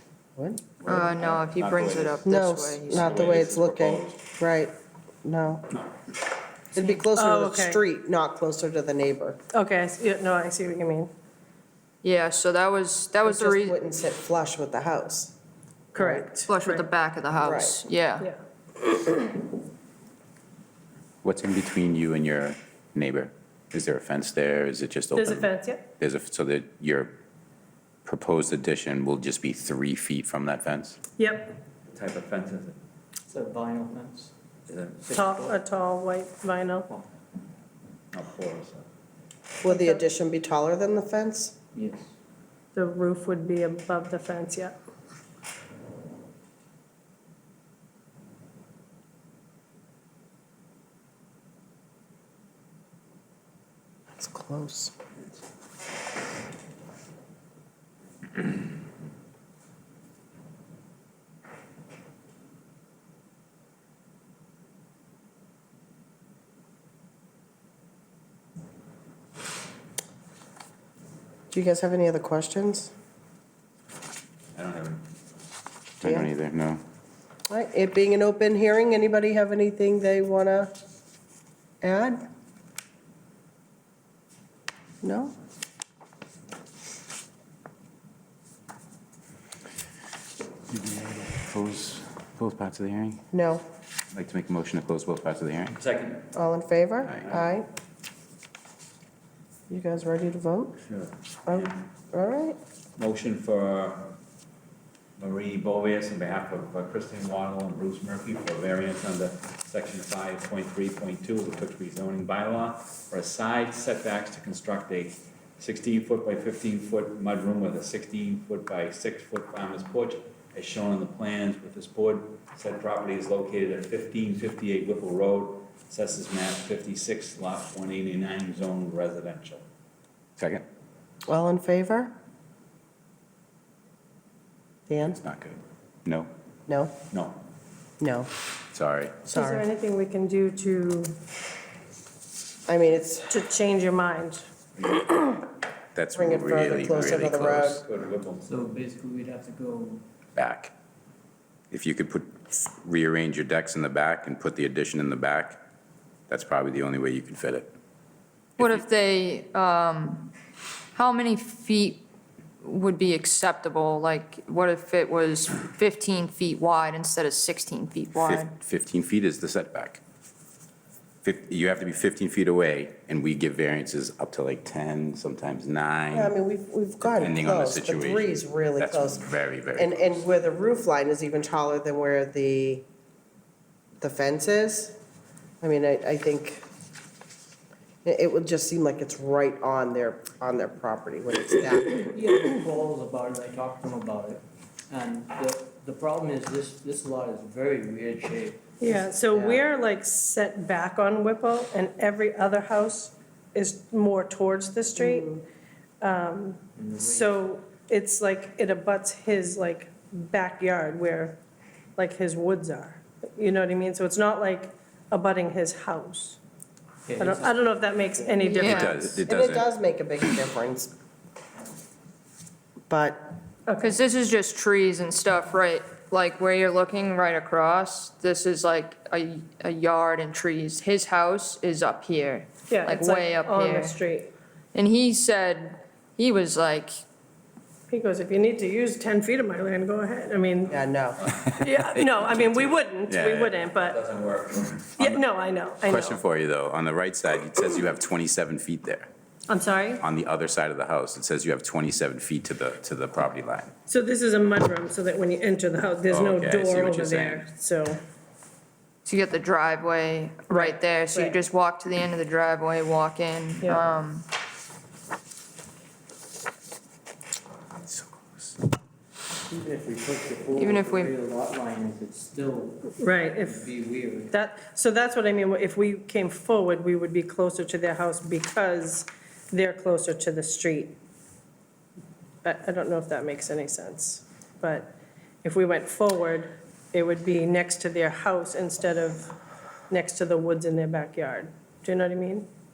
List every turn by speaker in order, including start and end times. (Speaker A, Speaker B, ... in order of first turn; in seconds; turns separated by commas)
Speaker A: 0.3-0.6, Speaker B: 0.8-2.3, Speaker C: 0.8-3.5, Speaker A: 2.2-5.7, Speaker B: 2.9-4.2, Speaker A: 6.7-9.4, Speaker D: 7.1-7.8, Speaker D: 9.5-11.1, Speaker C: 12.0-13.8, Speaker A: 13.2-15.3, Speaker A: 15.9-16.3, Speaker D: 15.9-16.8, Speaker C: 16.5-18.3, Speaker A: 17.4-17.8, Speaker E: 21.2-27.1, Speaker D: 25.1-25.8, Speaker E: 28.1-31.0, Speaker D: 31.2-31.6, Speaker B: 31.9-32.8, Speaker F: 33.3-34.3, Speaker B: 34.7-35.1, Speaker F: 35.0-35.6, Speaker D: 35.1-36.9, Speaker B: 38.1-38.8, Speaker A: 39.6-41.5, Speaker D: 39.7-40.0, Speaker F: 41.7-42.1, Speaker D: 42.7-44.7, Speaker A: 54.2-54.9, Speaker A: 71.5-72.9, Speaker B: 74.5-75.1, Speaker E: 76.0-76.8, Speaker A: 76.0-76.3, Speaker A: 77.5-80.7, Speaker A: 81.8-82.2, Speaker A: 85.0-85.3, Speaker E: 90.7-93.2, Speaker A: 93.3-93.6, Speaker E: 94.1-95.7, Speaker B: 95.7-96.3, Speaker A: 96.3-97.7, Speaker B: 97.2-97.5, Speaker A: 99.7-100.8, Speaker B: 100.8-101.8, Speaker A: 101.5-102.6, Speaker B: 103.0-104.2, Speaker B: 105.2-129.6, Speaker E: 130.4-130.6, Speaker A: 131.3-132.1, Speaker A: 134.9-135.2, Speaker E: 135.2-136.3, Speaker A: 136.7-136.9, Speaker B: 137.1-137.4, Speaker A: 138.0-138.3, Speaker E: 138.7-139.2, Speaker D: 139.3-141.2, Speaker A: 139.3-139.6, Speaker A: 142.7-143.3, Speaker D: 143.3-144.4, Speaker E: 145.9-147.8, Speaker A: 146.1-147.8, Speaker B: 147.7-148.6, Speaker F: 148.4-150.0, Speaker E: 150.3-150.7, Speaker E: 151.7-155.6, Speaker E: 156.3-157.7, Speaker E: 158.6-158.8, Speaker C: 158.6-160.3, Speaker C: 160.9-162.1, Speaker C: 162.6-168.5, Speaker E: 168.2-170.0, Speaker E: 171.2-176.3, Speaker A: 176.1-182.8, Speaker E: 177.0-180.2, Speaker A: 184.0-184.9, Speaker A: 185.6-186.6, Speaker A: 188.0-192.2, Speaker F: 192.1-198.6, Speaker D: 198.8-205.4, Speaker A: 199.3-199.6, Speaker A: 205.0-205.4, Speaker D: 206.0-211.4, Speaker F: 206.8-207.3, Speaker D: 212.0-216.4, Speaker F: 217.1-218.6, Speaker D: 217.2-219.2, Speaker C: 218.5-219.0, Speaker E: 218.6-219.7, Speaker A: 219.2-220.9, Speaker A: 222.9-223.2, Speaker D: 223.7-223.9, Speaker C: 223.8-233.9, Speaker D: 232.7-234.3, Speaker C: 234.7-237.0, Speaker D: 237.9-240.8, Speaker A: 240.7-241.2, Speaker E: 241.6-243.6, Speaker D: 241.6-244.0, Speaker B: 243.7-244.9, Speaker D: 245.0-246.2, Speaker E: 245.8-249.1, Speaker D: 249.5-250.0, Speaker E: 250.0-253.7, Speaker D: 253.9-258.0, Speaker E: 256.1-257.4, Speaker C: 259.1-264.2, Speaker D: 260.5-261.4, Speaker D: 263.6-263.9, Speaker F: 269.5-274.3, Speaker C: 270.5-271.2, Speaker D: 273.0-273.7, Speaker D: 274.3-280.9, Speaker D: 282.4-289.3, Speaker D: 289.9-292.5